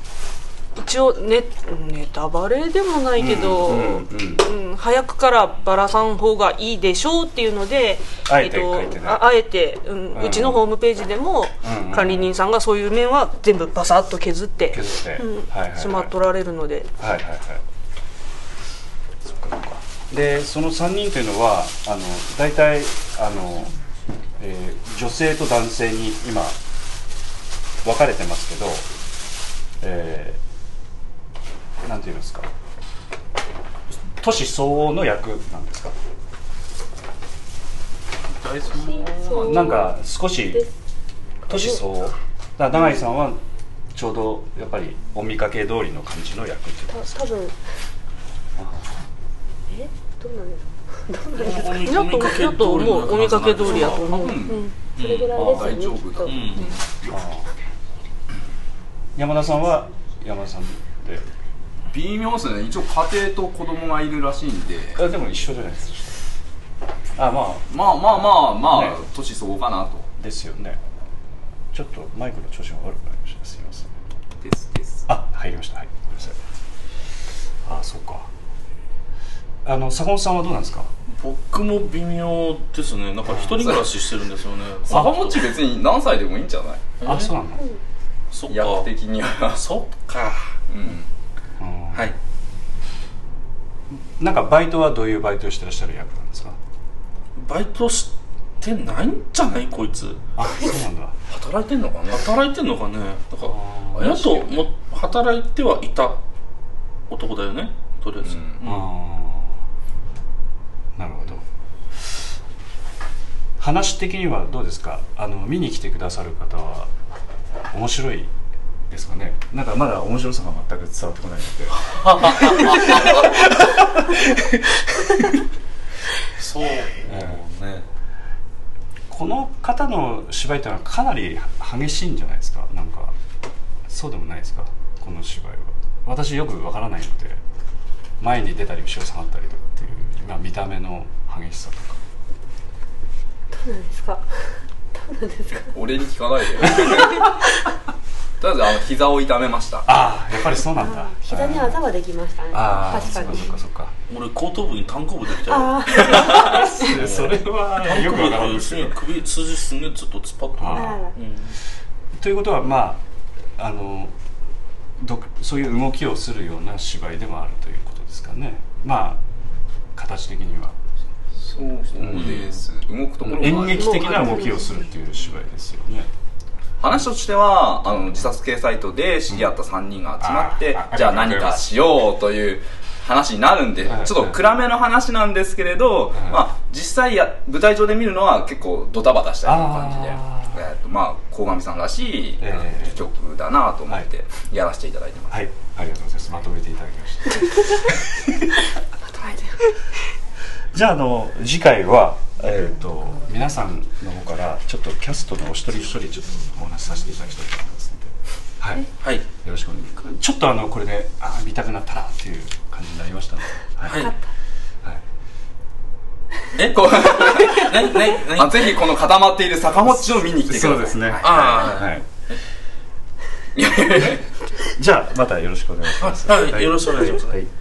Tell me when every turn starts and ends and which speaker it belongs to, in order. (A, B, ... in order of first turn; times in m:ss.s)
0:00.8-0:16.9 A
0:03.2-0:04.4 B
0:08.3-0:09.2 B
0:10.1-0:10.6 B
0:11.6-0:12.3 B
0:14.7-0:16.1 B
0:17.0-0:17.6 B
0:19.2-0:23.7 B
0:24.4-0:26.6 B
0:27.8-0:28.8 B
0:29.8-0:30.4 B
0:31.8-0:32.5 B
0:34.2-0:35.9 B
0:38.3-0:39.6 C
0:38.9-0:39.9 D
0:39.4-0:40.6 B
0:41.5-0:41.8 D
0:41.5-0:43.4 B
0:43.9-0:47.2 B
0:46.9-0:47.6 D
0:48.6-0:48.9 B
0:49.7-0:51.9 D
0:51.3-0:54.1 C
0:51.7-0:54.7 A
0:53.7-0:54.6 E
0:55.0-0:56.6 D
0:55.0-0:55.6 C
0:55.3-0:56.7 E
0:56.2-0:56.8 C
0:57.0-0:57.5 B
0:59.2-1:01.2 B
1:01.9-1:05.0 E
1:04.9-1:06.2 B
1:07.2-1:09.0 B
1:07.7-1:10.1 E
1:10.2-1:10.8 B
1:11.7-1:14.0 B
1:14.4-1:15.1 E
1:15.1-1:16.4 B
1:17.6-1:18.3 B
1:19.6-1:20.9 B
1:21.1-1:25.4 C
1:23.3-1:23.7 B
1:24.9-1:26.9 E
1:24.9-1:25.2 B
1:27.0-1:27.3 C
1:27.0-1:27.6 B
1:28.3-1:28.9 C
1:28.5-1:29.6 E
1:29.5-1:30.5 C
1:30.7-1:31.1 E
1:31.6-1:32.1 B
1:33.9-1:36.6 B
1:37.4-1:40.2 C
1:40.4-1:41.1 B
1:41.3-1:42.3 E
1:42.1-1:46.2 C
1:43.4-1:44.2 B
1:43.9-1:44.7 E
1:47.1-1:48.8 C
1:48.2-1:48.8 E
1:48.6-1:49.6 B
1:51.0-1:51.4 B
1:53.6-1:56.9 B
1:57.7-1:58.3 B
1:58.9-2:04.5 B
2:01.8-2:03.5 C
2:06.3-2:07.8 C
2:07.0-2:07.4 B
2:09.1-2:13.1 B
2:13.9-2:17.4 B
2:18.2-2:22.0 B
2:23.5-2:25.7 D
2:25.7-2:27.3 E
2:26.9-2:27.4 D
2:28.4-2:30.0 E
2:29.8-2:31.8 B
2:30.8-2:33.6 D
2:32.5-2:33.9 B
2:34.1-2:41.6 C
2:35.5-2:36.8 D
2:36.0-2:39.0 B
2:40.6-2:41.1 B
2:40.7-2:41.1 D
2:42.1-2:43.0 B
2:43.6-2:44.1 B
2:45.0-2:49.2 B
2:50.0-2:50.8 B
2:51.4-2:54.3 E
2:52.0-2:52.4 B
2:52.0-2:52.6 C
2:53.2-2:56.1 B
2:53.9-2:54.4 A
2:56.8-3:15.4 E
3:00.2-3:01.8 B
3:03.8-3:04.4 B
3:06.2-3:06.4 B
3:09.4-3:10.6 B
3:12.4-3:13.0 B
3:15.3-3:18.6 B
3:19.1-3:19.5 D
3:20.7-3:34.1 B
3:29.0-3:29.2 C
3:33.8-3:34.1 C
3:36.5-3:38.8 C
3:36.7-3:41.6 E
3:39.8-3:42.0 B
3:41.2-3:42.4 C
3:43.5-3:44.2 E
3:44.8-3:47.5 B
3:46.0-3:47.4 C